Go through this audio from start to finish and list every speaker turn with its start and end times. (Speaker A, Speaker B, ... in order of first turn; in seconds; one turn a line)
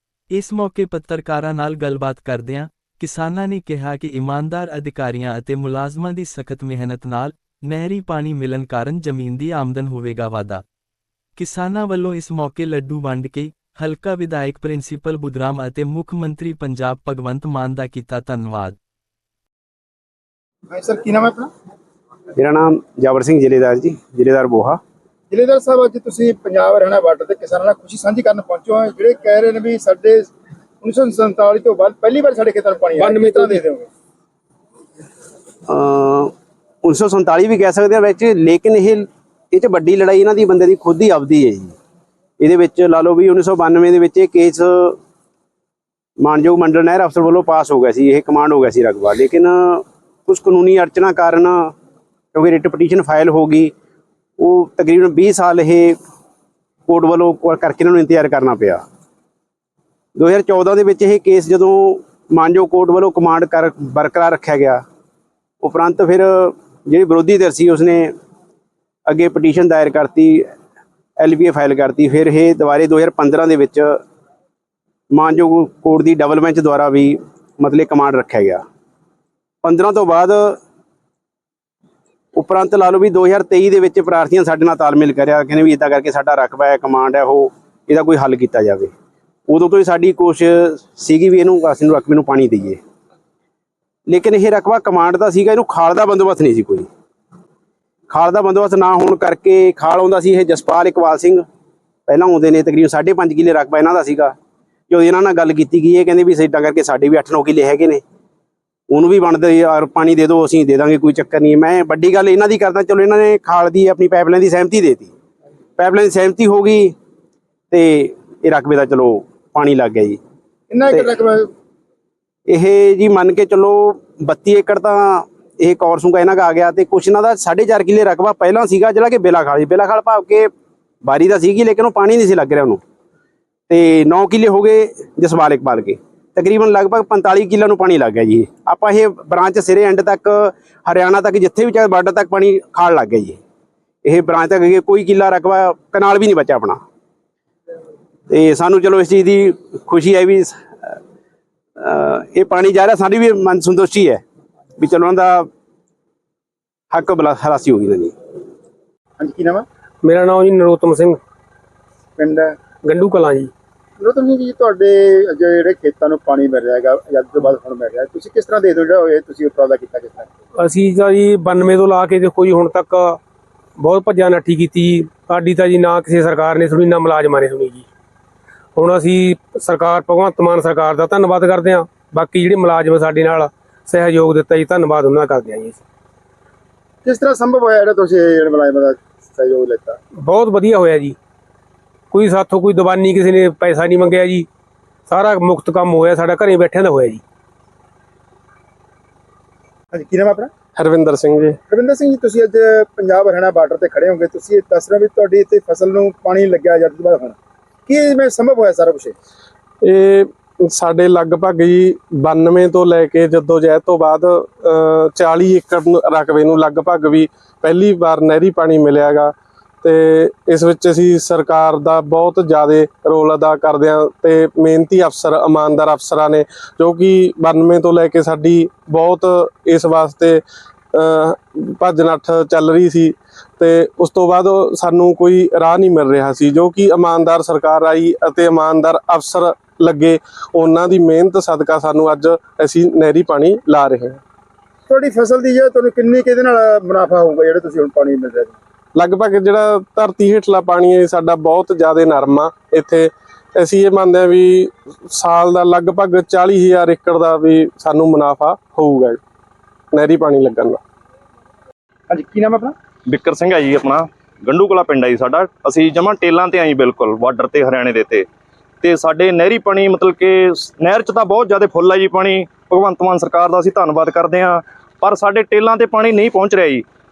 Speaker A: 0.3-10.6
Speaker A: 11.4-18.8
Speaker B: 20.7-21.5
Speaker C: 22.4-24.8
Speaker B: 25.3-30.3
Speaker B: 30.8-33.9
Speaker D: 33.0-33.6
Speaker C: 35.7-41.8
Speaker C: 42.4-45.0
Speaker C: 46.2-51.7
Speaker C: 52.3-53.7
Speaker C: 54.4-56.0
Speaker C: 56.9-58.8
Speaker C: 60.1-64.8
Speaker C: 65.6-68.1
Speaker C: 69.1-70.5
Speaker C: 71.2-74.0
Speaker C: 75.1-78.6
Speaker C: 79.6-80.6
Speaker C: 82.3-88.9
Speaker C: 89.5-92.8
Speaker C: 94.1-96.9
Speaker C: 98.1-101.5
Speaker C: 102.1-104.4
Speaker C: 104.9-108.0
Speaker C: 108.9-115.1
Speaker C: 115.8-117.0
Speaker C: 117.7-120.2
Speaker B: 120.7-121.5
Speaker C: 122.5-130.5
Speaker C: 131.0-132.8
Speaker C: 133.7-143.4
Speaker C: 144.0-146.8
Speaker C: 148.3-151.0
Speaker C: 151.8-154.2
Speaker C: 154.8-155.5
Speaker C: 156.9-158.2
Speaker B: 159.2-159.7
Speaker D: 160.0-161.2
Speaker B: 162.2-162.6
Speaker D: 162.8-163.5
Speaker B: 164.0-170.3
Speaker D: 170.6-173.2
Speaker D: 173.8-177.8
Speaker D: 178.8-185.8
Speaker B: 187.0-190.0
Speaker D: 190.2-191.2
Speaker D: 192.1-194.5
Speaker D: 195.1-197.2
Speaker B: 199.9-200.5
Speaker E: 200.8-201.6
Speaker B: 201.7-207.4
Speaker B: 207.9-209.2
Speaker E: 209.8-230.4
Speaker E: 230.9-244.2
Speaker B: 244.9-248.6
Speaker E: 248.9-259.2
Speaker E: 259.9-260.8
Speaker B: 262.1-262.8
Speaker F: 263.1-268.3
Speaker F: 268.8-276.8